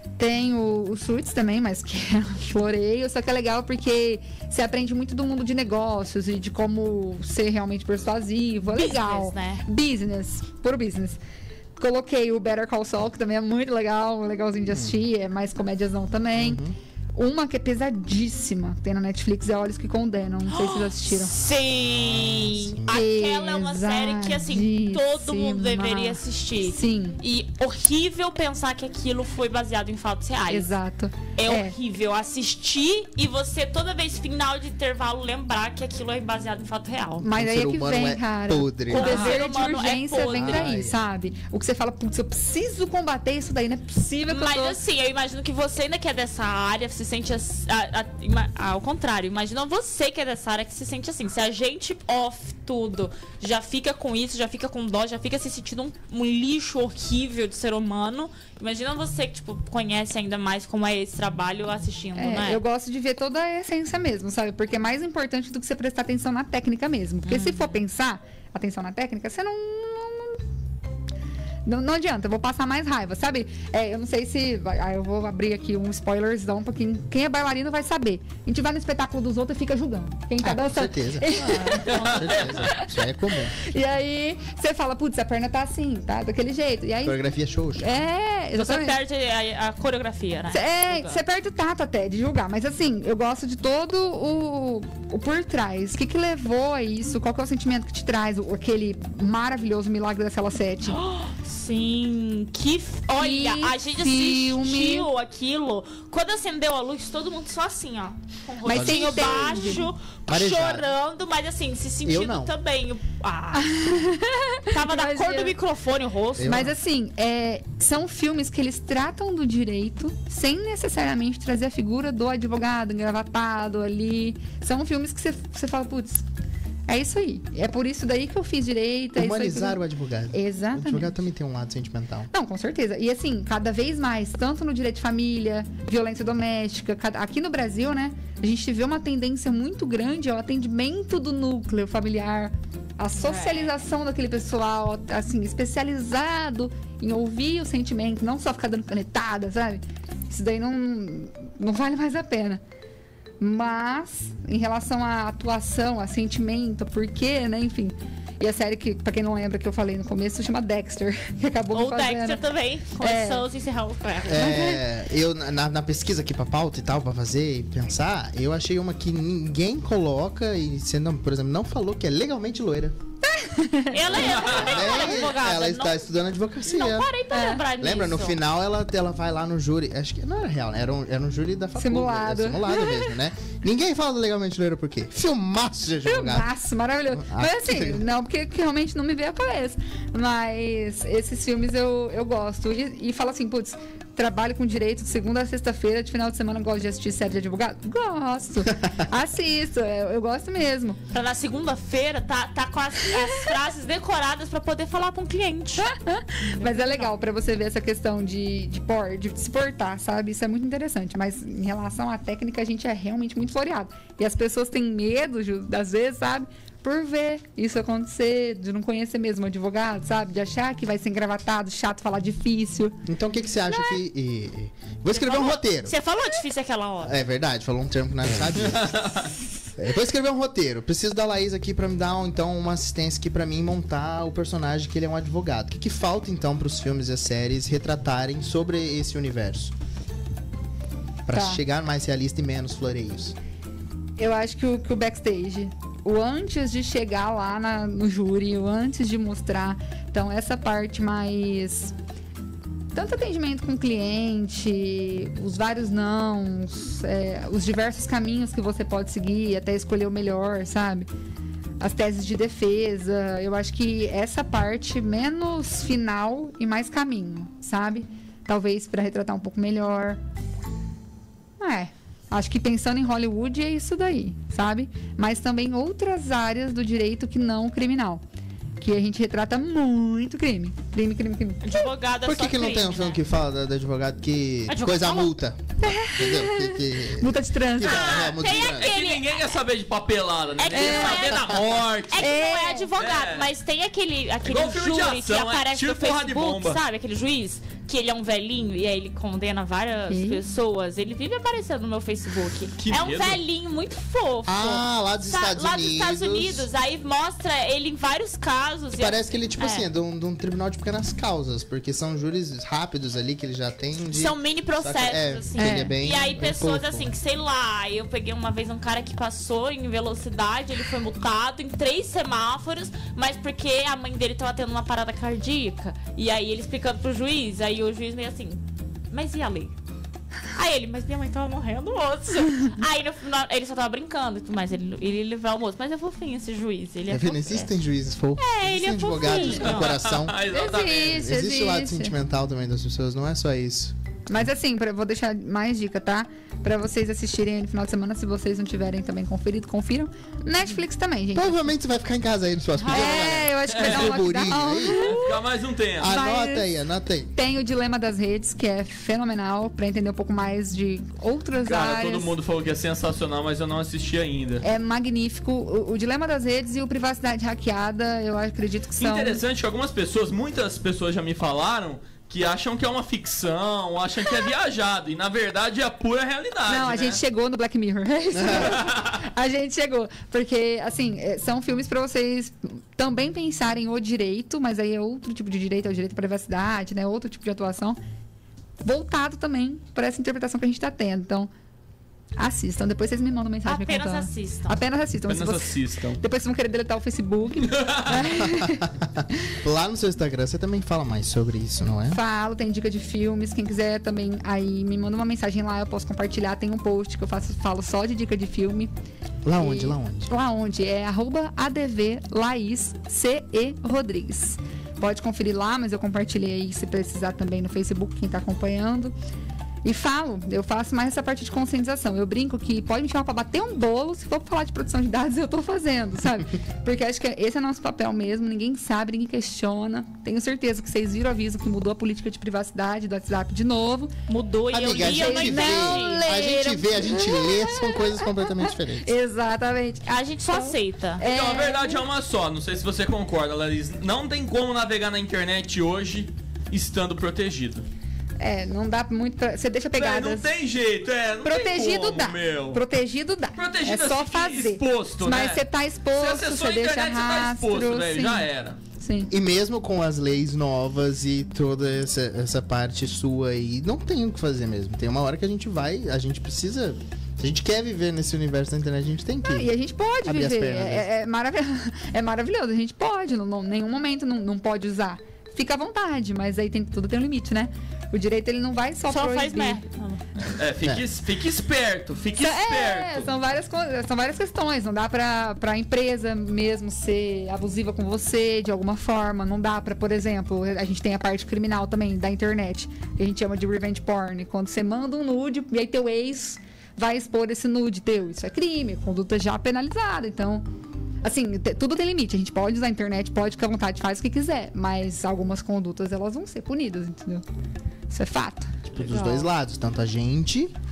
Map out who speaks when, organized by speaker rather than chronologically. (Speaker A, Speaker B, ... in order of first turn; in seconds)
Speaker A: 0.2-11.2, 11.8-16.6, 17.1-21.4, 22.9-27.2, 30.5-31.8, 37.2-44.8, 62.1-70.4, 71.7-82.9, 83.5-87.2, 87.8-89.0, 90.5-101.0, 103.1-105.1, 108.6-109.9, 113.5-115.6, 116.4-126.2, 126.9-129.8, 130.3-131.2, 132.3-152.6, 153.4-163.5, 164.3-164.8, 173.3-174.5, 177.3-177.7, 181.8-183.1, 186.1-201.0, 203.2-203.5, 205.8-223.0, 223.7-224.0, 241.3-241.6, 244.2-251.9, 252.9-261.1, 261.8-270.2, 271.6-278.2, 278.8-281.9, 285.8-288.2, 290.7-291.3, 292.2-292.9, 300.1-300.4, 315.6-316.0, 339.2-339.6, 340.5-342.1, 344.3-351.8, 352.9-355.4, 356.0-356.8, 357.3-362.4, 364.6-369.4, 376.7-388.0, 388.8-391.5, 392.4-398.9, 402.1-408.9, 409.6-419.1, 419.8-434.1, 434.9-442.1, 448.4-450.5, 451.4-459.3, 469.4-479.8, 482.4-500.7, 501.2-507.4, 508.1-509.5
Speaker B: 8.7-9.6, 20.5-30.7, 31.4-37.3, 38.9-40.7, 44.3-62.6, 67.3-67.8, 81.4-82.7, 88.5-91.2, 100.9-114.0, 114.7-116.7, 143.2-143.8, 161.7-164.6, 173.9-176.1, 176.7-178.4, 201.1-205.9, 206.4-207.2, 225.1-227.2, 281.6-283.2, 284.7-285.3, 287.9-289.6, 290.6-309.9, 314.1-329.8, 330.5-337.7, 338.4-340.0, 352.8-353.5, 393.6-394.8, 434.3-436.2, 440.1-441.2, 479.1-480.2
Speaker C: 14.7-15.0, 16.4-16.8, 22.0-23.1, 37.3-39.3, 40.3-41.0, 80.4-83.6, 87.0-87.9, 108.7-110.9, 112.0-112.5, 116.4-116.7, 129.2-132.3, 164.3-172.9, 174.1-177.1, 177.8-186.5, 187.1-188.0, 223.1-225.9, 227.0-229.0, 229.8-239.7, 241.3-243.4, 282.2-288.9, 304.5-306.7, 309.0-317.1, 337.1-340.4, 341.1-343.9, 351.3-355.2, 356.0-357.3, 378.3-378.8, 398.2-402.2, 409.4-410.3, 434.7-439.1, 459.3-469.7, 470.2-471.1, 508.9-510.8
Speaker D: 81.9-82.7, 174.1-175.0, 228.7-229.3, 287.9-292.4, 293.0-293.5, 294.4-296.8, 302.8-303.4, 339.6-341.2, 353.7-354.1, 354.9-356.1, 361.6-364.6, 369.0-377.2, 378.5-379.2, 395.3-396.2, 397.6-398.2, 441.2-447.9, 450.0-452.8, 453.6-455.6, 456.1-458.8, 480.5-483.3